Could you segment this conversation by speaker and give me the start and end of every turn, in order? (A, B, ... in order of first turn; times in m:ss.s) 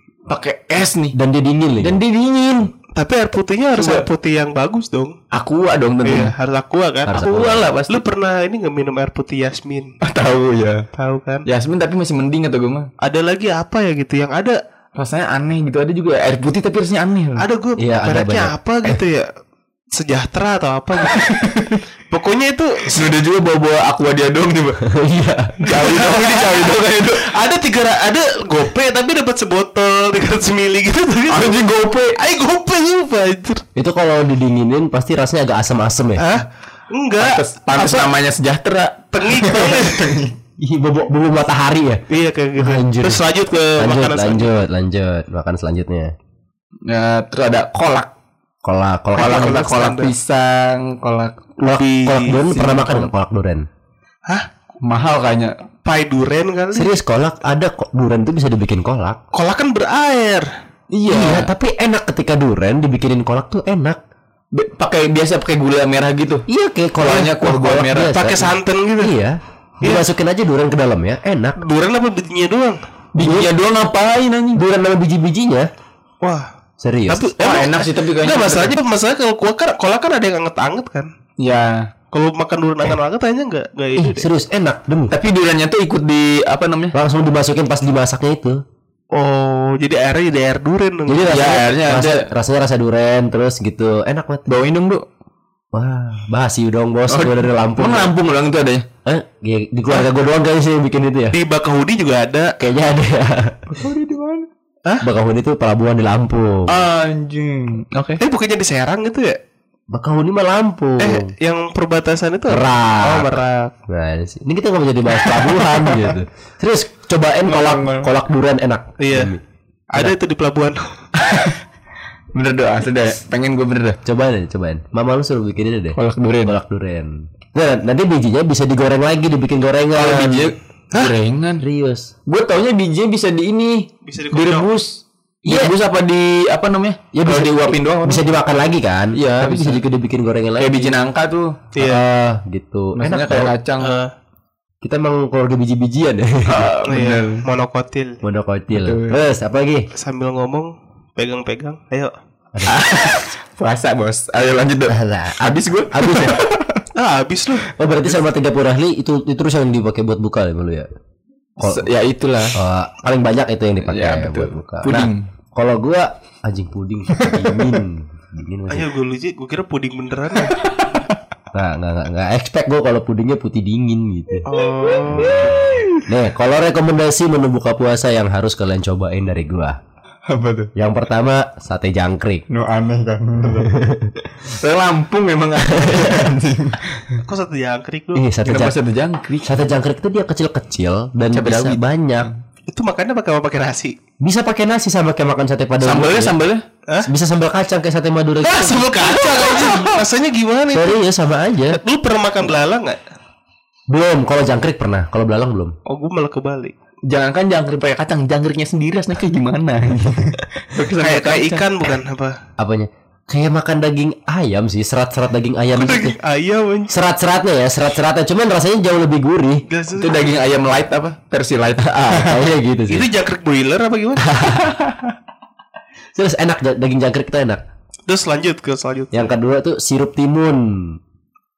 0:00.3-0:01.2 A
0:01.1-0:02.0 B
0:01.8-0:02.7 A
0:03.0-0:05.2 C
0:03.8-0:04.1 A
0:05.3-0:06.3 A
0:06.0-0:09.9 C
0:07.1-0:07.7 B
0:07.1-0:08.0 A
0:10.0-0:10.8 A
0:10.9-0:11.5 C
0:11.5-0:12.9 A
0:13.0-0:14.6 C
0:15.0-0:17.5 A
0:17.4-0:19.3 C
0:17.8-0:19.0 B
0:19.9-0:21.5 C
0:21.1-0:21.8 A
0:22.1-0:23.0 C
0:22.9-0:24.8 A
0:24.9-0:25.6 B
0:25.6-0:31.6 C
0:25.7-0:27.2 A
0:31.3-0:32.2 A
0:32.2-0:33.6 C
0:33.8-0:36.2 B
0:36.2-0:38.1 C
0:37.2-0:40.3 A
0:39.1-0:40.2 C
0:40.6-0:42.0 B
0:42.1-0:44.5 C
0:42.6-0:43.2 B
0:43.8-0:46.1 B
0:46.9-0:48.1 A
0:48.6-0:49.7 B
0:49.2-0:51.4 A
0:49.2-0:50.1 C
0:51.6-0:53.6 B
0:51.7-0:52.4 C
0:52.4-0:53.1 A
0:54.8-0:55.6 A
0:55.8-0:56.9 C
0:56.8-0:59.2 B
0:59.3-1:00.5 C
1:00.9-1:01.5 A
1:01.1-1:04.0 B
1:04.5-1:06.5 A
1:06.5-1:11.6 B
1:07.0-1:08.2 A
1:08.0-1:09.1 C
1:11.6-1:12.8 C
1:13.1-1:14.6 A
1:13.2-1:13.5 B
1:14.5-1:15.7 B
1:16.2-1:16.5 C
1:16.8-1:17.3 B
1:17.1-1:21.1 C
1:17.4-1:18.8 A
1:21.4-1:21.9 A
1:22.1-1:24.3 C
1:24.0-1:25.2 B
1:25.1-1:27.0 A
1:26.9-1:28.6 B
1:29.1-1:31.6 C
1:31.1-1:34.5 B
1:31.2-1:32.3 A
1:34.5-1:35.1 A
1:35.7-1:38.1 B
1:37.1-1:38.9 A
1:39.0-1:41.4 B
1:41.3-1:42.6 C
1:42.6-1:43.6 B
1:43.7-1:44.5 A
1:45.0-1:46.8 B
1:46.7-1:48.2 A
1:48.2-1:49.4 C
1:49.9-1:51.3 B
1:51.0-1:53.7 C
1:52.5-1:59.4 B
1:55.2-1:56.2 A
1:57.5-1:58.1 A
1:59.0-1:59.3 C
1:59.9-2:01.0 C
2:01.2-2:01.6 A
2:02.3-2:04.0 A
2:04.0-2:10.5 B
2:06.0-2:06.6 A
2:09.9-2:11.6 A
2:11.6-2:12.1 B
2:12.3-2:18.2 A
2:14.0-2:14.7 C
2:15.5-2:15.7 B
2:17.1-2:21.0 B
2:19.2-2:19.8 A
2:20.6-2:21.6 A
2:21.7-2:22.1 C
2:21.8-2:23.5 B
2:23.0-2:24.0 A
2:23.8-2:24.1 C
2:24.8-2:26.7 B
2:26.5-2:27.4 A
2:26.9-2:28.2 C
2:28.2-2:29.9 B
2:28.7-2:29.2 A
2:29.9-2:32.1 C
2:32.5-2:32.9 B
2:32.7-2:36.8 A
2:34.9-2:36.5 B
2:37.0-2:37.7 C
2:37.8-2:40.9 B
2:41.6-2:41.9 B
2:41.6-2:42.6 A
2:42.6-2:48.9 B
2:43.8-2:45.3 A
2:47.2-2:47.8 A
2:48.7-2:50.6 C
2:51.5-2:54.5 B
2:54.5-2:55.5 C
2:54.9-2:56.0 A
2:55.1-2:59.8 B
3:00.3-3:00.7 A
3:00.8-3:02.4 B
3:02.5-3:03.8 A
3:03.6-3:04.1 B
3:04.5-3:07.2 A
3:05.8-3:06.2 B
3:07.2-3:08.3 C
3:08.2-3:08.8 B
3:08.4-3:09.6 A
3:09.4-3:12.3 B
3:11.3-3:12.4 A
3:12.7-3:14.0 C
3:14.2-3:16.4 B
3:15.8-3:16.6 A
3:17.0-3:18.9 B
3:18.4-3:21.0 C
3:19.0-3:20.0 A
3:20.7-3:21.8 B
3:21.7-3:23.0 C
3:23.9-3:25.8 B
3:25.9-3:26.7 C
3:27.1-3:31.9 A
3:30.9-3:32.4 C
3:32.6-3:36.2 B
3:35.7-3:37.0 C
3:36.9-3:39.6 B
3:39.7-3:40.4 C
3:40.0-3:42.4 A
3:41.8-3:43.1 B
3:42.9-3:44.3 C
3:44.3-3:44.8 B
3:44.6-3:45.1 A
3:46.2-3:47.6 B
3:48.1-3:49.3 C
3:49.1-3:51.0 B